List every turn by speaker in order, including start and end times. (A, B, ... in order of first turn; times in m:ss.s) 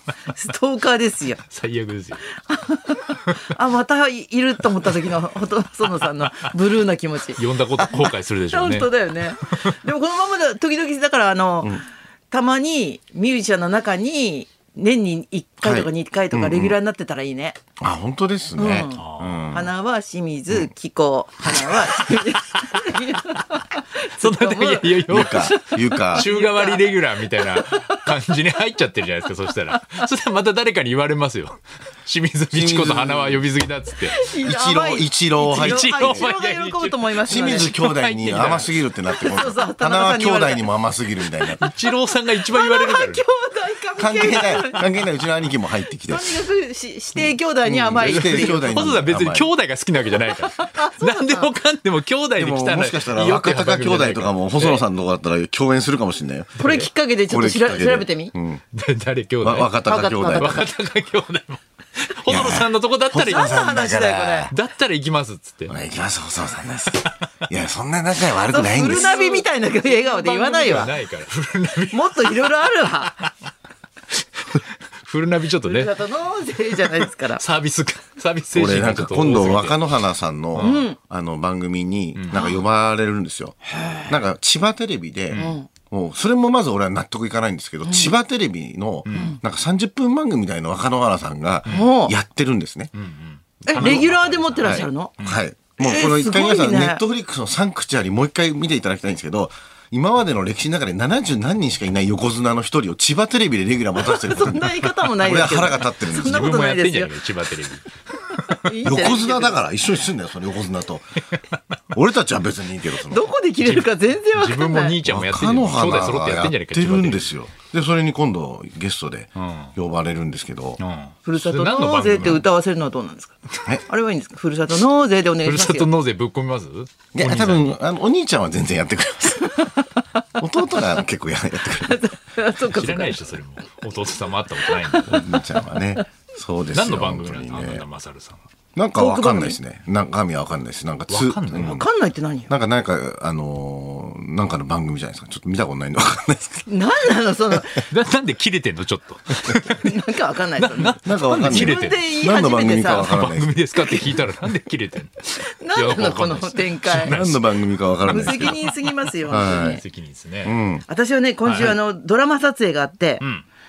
0:00.3-0:01.4 A
0:01.5-0:02.3 B
0:02.4-0:17.6 A
0:07.4-0:08.9 B
0:09.4-0:09.8 B
0:15.6-0:16.8 C
0:17.8-0:19.7 C
0:18.6-0:28.1 A
0:19.0-0:19.6 B
0:24.2-0:25.6 B
0:25.1-0:26.3 C
0:26.1-0:34.3 B
0:32.5-0:33.5 C
0:34.1-0:37.7 A
0:34.4-0:36.3 C
0:35.4-0:38.8 B
0:37.3-0:41.6 C
0:39.2-0:40.7 A
0:41.5-0:44.9 A
0:41.6-0:43.2 B
0:44.0-0:46.4 C
0:46.1-0:48.8 A
0:47.2-0:49.5 C
0:48.0-0:54.8 B
0:50.4-0:51.5 A
0:52.4-0:56.6 C
0:56.6-0:56.9 B
0:56.6-0:58.3 A
0:57.3-0:58.6 C
0:58.7-1:03.6 B
0:59.4-1:00.6 C
0:59.8-1:00.7 A
1:02.3-1:04.5 C
1:03.1-1:04.5 A
1:04.5-1:05.7 B
1:05.7-1:09.1 C
1:08.5-1:10.9 A
1:08.8-1:13.3 B
1:11.9-1:13.2 A
1:14.4-1:16.0 B
1:15.6-1:17.4 A
1:17.4-1:19.9 B
1:18.5-1:32.9 C
1:20.6-1:20.9 B
1:20.6-1:21.0 A
1:22.2-1:22.4 B
1:23.8-1:24.1 A
1:25.3-1:25.6 B
1:25.4-1:25.7 A
1:27.8-1:28.1 A
1:29.0-1:29.4 B
1:31.7-1:32.1 A
1:33.0-1:35.4 B
1:33.6-1:34.1 C
1:33.7-1:35.1 A
1:34.6-1:46.6 C
1:35.8-1:37.0 A
1:44.0-1:47.1 A
1:46.0-1:48.7 B
1:48.6-1:49.7 A
1:48.8-1:51.2 C
1:51.9-1:53.3 C
1:53.1-1:55.0 A
1:53.6-1:57.4 B
1:55.0-2:00.8 C
1:59.4-1:59.7 B
2:00.8-2:02.4 B
2:01.3-2:05.9 A
2:05.4-2:07.8 B
2:07.1-2:09.7 C
2:09.5-2:09.8 A
2:10.4-2:12.0 C
2:11.8-2:13.4 A
2:12.6-2:15.2 B
2:14.6-2:15.4 A
2:15.0-2:17.9 C
2:16.7-2:18.4 B
2:18.8-2:21.9 C
2:19.0-2:19.6 A
2:21.1-2:21.8 B
2:21.6-2:22.5 A
2:22.5-2:26.7 C
2:26.7-2:27.9 A
2:27.8-2:30.0 B
2:29.6-2:33.2 A
2:30.6-2:32.0 B
2:31.0-2:33.5 C
2:32.9-2:37.5 B
2:33.8-2:34.3 A
2:35.4-2:37.2 A
2:36.9-2:38.6 C
2:38.1-2:39.8 A
2:38.1-2:40.6 B
2:39.3-2:39.8 C
2:40.4-2:40.9 C
2:40.9-2:43.2 A
2:41.4-2:41.8 B